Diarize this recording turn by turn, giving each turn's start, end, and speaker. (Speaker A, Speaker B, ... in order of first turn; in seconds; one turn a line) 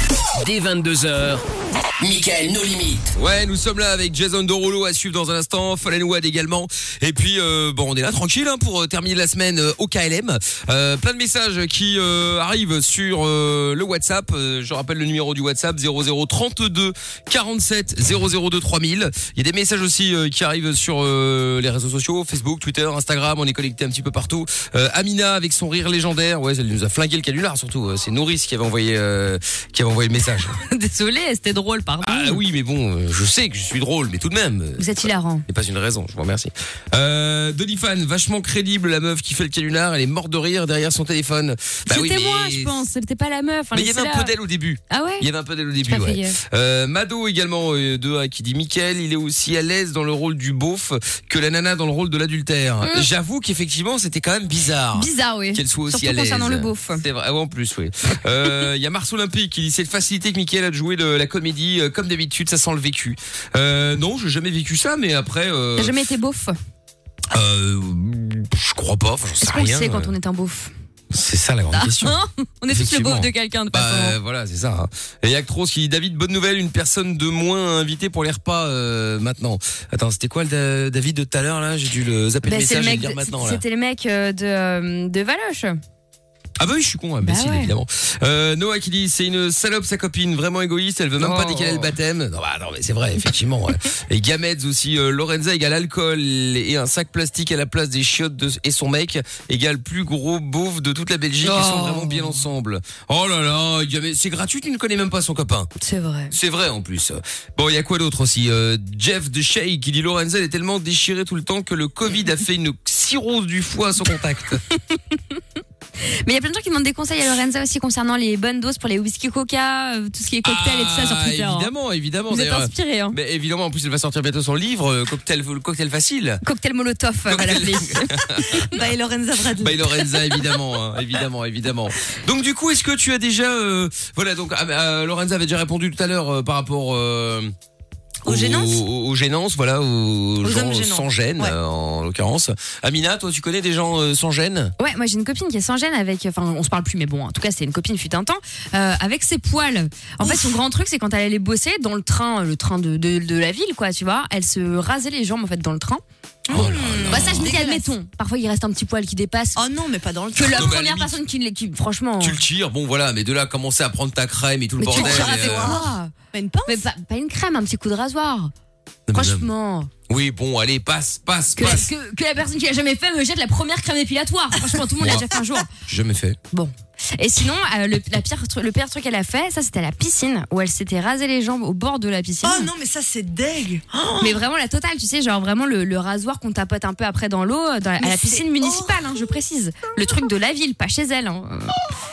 Speaker A: 0.3-1.4
Speaker A: 2.0-3.1
Speaker B: 3.1-30.6
Speaker C: 30.6-32.4
Speaker B: 32.0-42.8
Speaker C: 34.8-35.5
Speaker C: 41.9-44.3
Speaker B: 43.7-65.9
Speaker C: 44.9-45.3
Speaker C: 45.8-46.4
Speaker C: 52.8-53.1
Speaker C: 54.9-57.0
Speaker C: 65.8-66.5
Speaker B: 67.3-70.1
Speaker C: 69.4-70.7
Speaker B: 71.1-72.2
Speaker C: 71.7-74.2
Speaker B: 72.7-83.6
Speaker C: 82.4-85.8
Speaker B: 86.6-105.7
Speaker C: 87.2-87.7
Speaker C: 91.2-92.0
Speaker C: 101.4-102.4
Speaker C: 105.8-106.3
Speaker B: 106.3-114.6
Speaker C: 114.7-115.4
Speaker C: 116.0-121.7
Speaker B: 120.4-126.4
Speaker C: 122.3-123.2
Speaker C: 126.4-128.8
Speaker B: 127.3-128.7
Speaker D: 128.6-130.2
Speaker B: 129.6-137.5
Speaker D: 138.2-138.8
Speaker B: 138.2-144.7
Speaker D: 140.4-141.6
Speaker C: 144.8-156.0
Speaker D: 150.2-150.5
Speaker D: 156.5-157.9
Speaker B: 156.5-157.5
Speaker C: 156.6-159.6
Speaker D: 159.6-160.8
Speaker C: 160.3-162.4
Speaker B: 160.4-161.2
Speaker B: 162.2-165.8
Speaker C: 164.8-166.1
Speaker D: 164.8-166.8
Speaker C: 166.7-168.5
Speaker B: 169.1-169.5
Speaker C: 169.1-169.9
Speaker B: 170.1-171.9
Speaker C: 171.6-175.7
Speaker B: 175.0-175.3
Speaker B: 175.8-176.4
Speaker C: 176.5-182.7
Speaker D: 182.4-184.4
Speaker C: 184.2-191.8
Speaker D: 188.0-189.3
Speaker D: 190.0-190.2